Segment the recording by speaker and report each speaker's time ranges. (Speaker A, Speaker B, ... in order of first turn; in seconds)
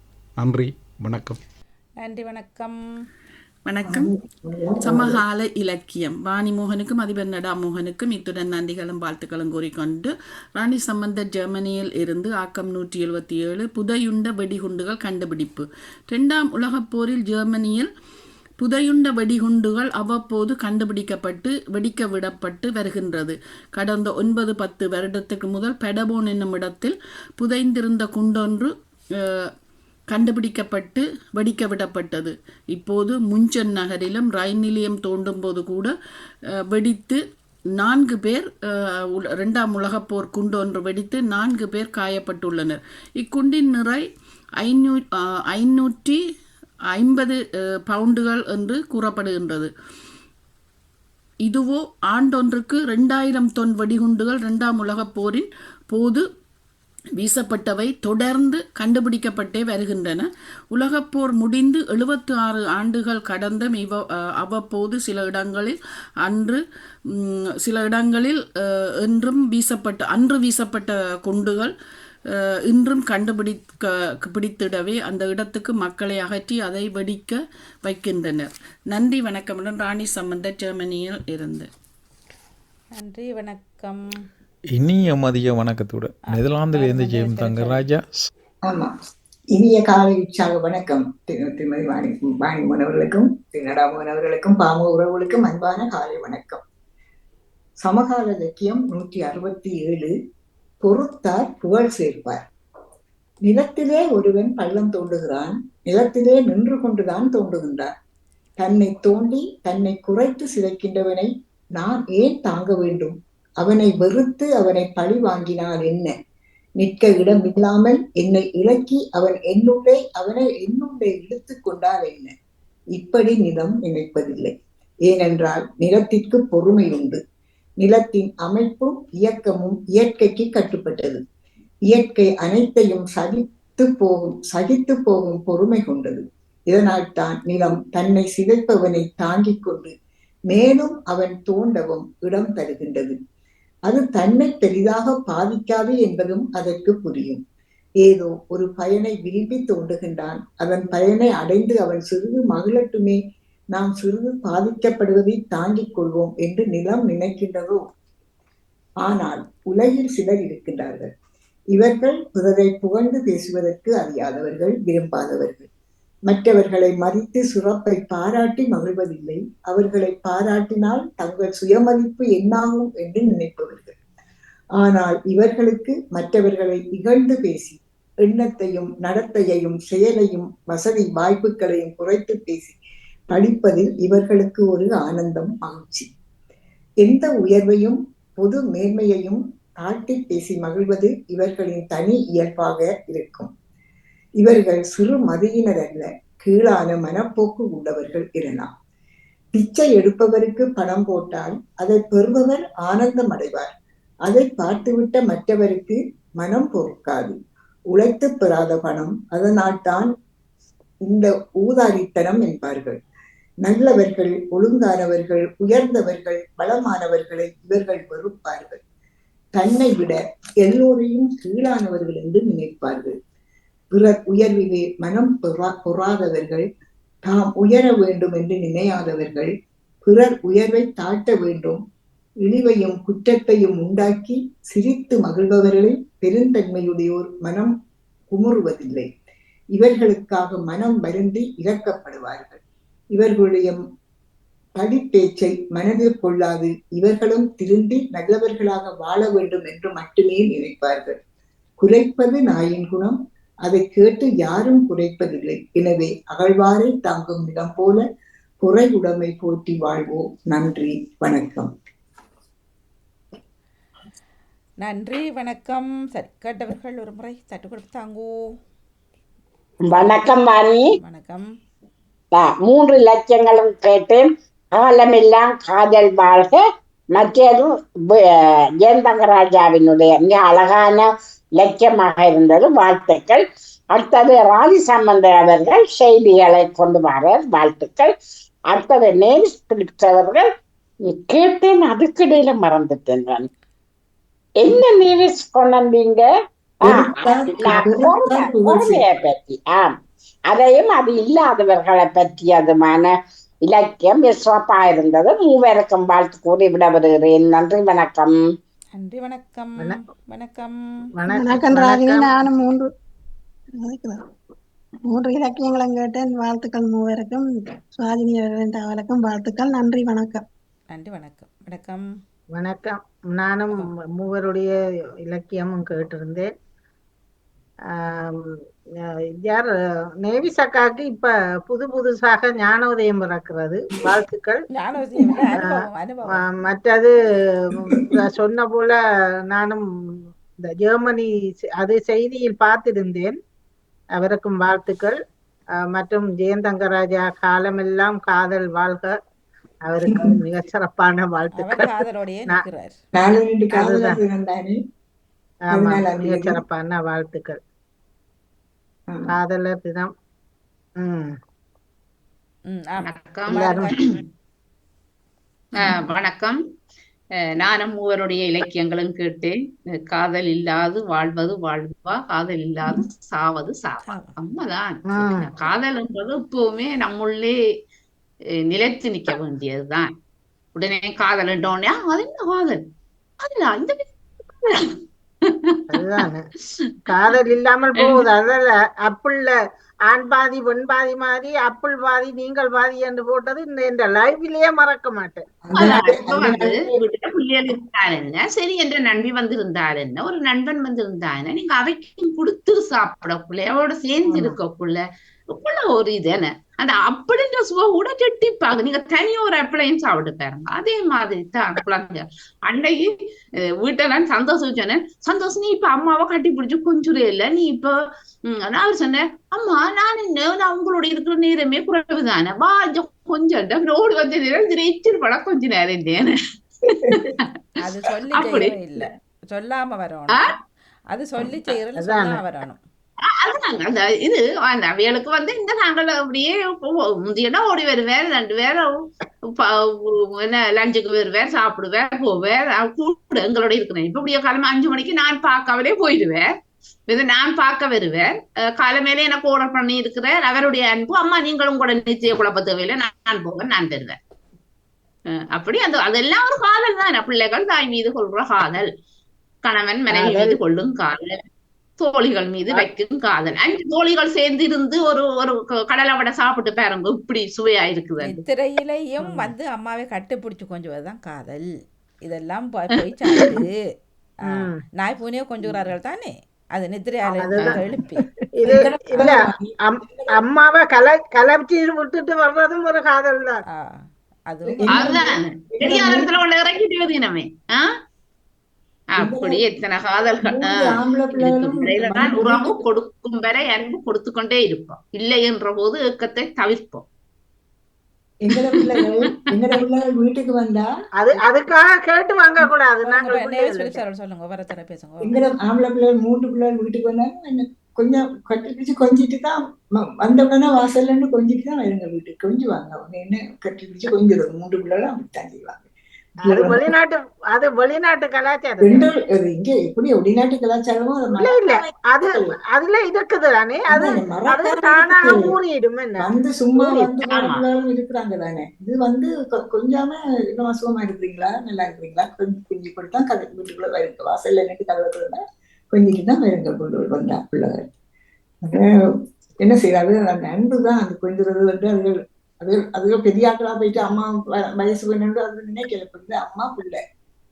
Speaker A: 0.4-1.4, 84.7-88.3
Speaker B: 2.0-2.8, 82.9-84.0, 86.3-87.8, 264.8-268.3, 270.9-271.4, 308.9-310.8, 320.9-322.0, 334.7-336.4, 351.6-352.9, 362.7-363.9, 374.1-374.3, 427.8-430.4, 431.1-432.8, 468.2-471.6, 472.2-473.7, 474.5-478.3, 484.5-485.1, 503.0-505.4
Speaker C: 3.6-4.1, 4.8-17.9, 18.6-28.7, 30.1-35.9, 36.7-37.2, 37.8-38.5, 39.1-44.0, 44.6-46.2, 46.9-49.7, 51.5-56.2, 57.2-66.6, 67.2-68.4, 69.0-71.7, 72.7-81.7
Speaker D: 3.9-5.2, 88.6-88.9, 89.5-96.6, 97.8-100.1, 100.8-102.4, 103.4-107.9, 108.6-116.1, 116.8-122.3, 122.9-124.5, 125.1-127.2, 127.8-131.2, 131.9-139.9, 140.5-143.2, 143.9-147.4, 148.0-153.2, 153.7-157.8, 159.0-161.1, 161.7-165.7, 166.3-173.9, 174.8-182.8, 183.3-186.1, 187.0-193.5, 194.4-198.7, 199.5-203.7, 204.2-207.4, 207.9-210.1, 211.1-213.0, 213.6-218.8, 219.5-223.1, 223.9-226.6, 227.2-229.5, 230.0-231.8, 232.4-237.7, 238.3-239.1, 239.7-242.6, 243.1-243.8, 244.8-251.2, 251.8-258.0, 258.6-261.7, 296.8-299.1, 350.1-350.4, 353.1-354.8, 355.7-356.6, 359.1-359.3, 395.6-396.9, 478.7-480.4, 484.7-486.3, 489.2-489.6, 490.4-492.8, 498.4-500.9, 505.2-515.8, 516.4-516.9, 518.8-522.6, 523.9-525.6, 526.2-537.9, 539.6-547.0
Speaker E: 269.8-270.9, 272.3-276.6, 277.1-288.1, 288.7-290.4, 291.1-293.5, 294.6-296.3, 296.8-299.9, 300.5-308.4
Speaker F: 311.2-312.3, 322.5-326.5, 327.9-334.6, 335.6-343.4, 344.1-345.2, 345.8-349.1, 349.8-352.0, 353.7-354.2, 355.7-357.6, 359.3-360.1, 361.0-361.3, 363.5-364.1, 375.1-375.5, 385.9-386.4, 387.1-389.5, 390.1-395.4, 404.3-404.6, 432.0-432.4, 460.1-460.6, 474.4-474.8, 477.2-477.8, 478.6-483.6, 501.2-504.0, 516.4-519.1, 521.4-527.1
Speaker G: 311.3-312.9, 313.7-314.2, 315.0-320.4
Speaker H: 363.0-364.2, 365.7-366.6, 367.6-377.5, 378.7-380.1, 380.7-382.8, 383.4-384.1, 388.0-388.2, 395.8-405.0, 405.5-413.1, 413.8-417.9, 418.5-427.4, 428.3-429.1, 433.4-438.9, 439.6-446.5, 447.1-454.2, 455.5-458.9, 459.6-461.4, 462.0-468.4, 484.9-487.9, 489.1-497.0, 527.3-527.6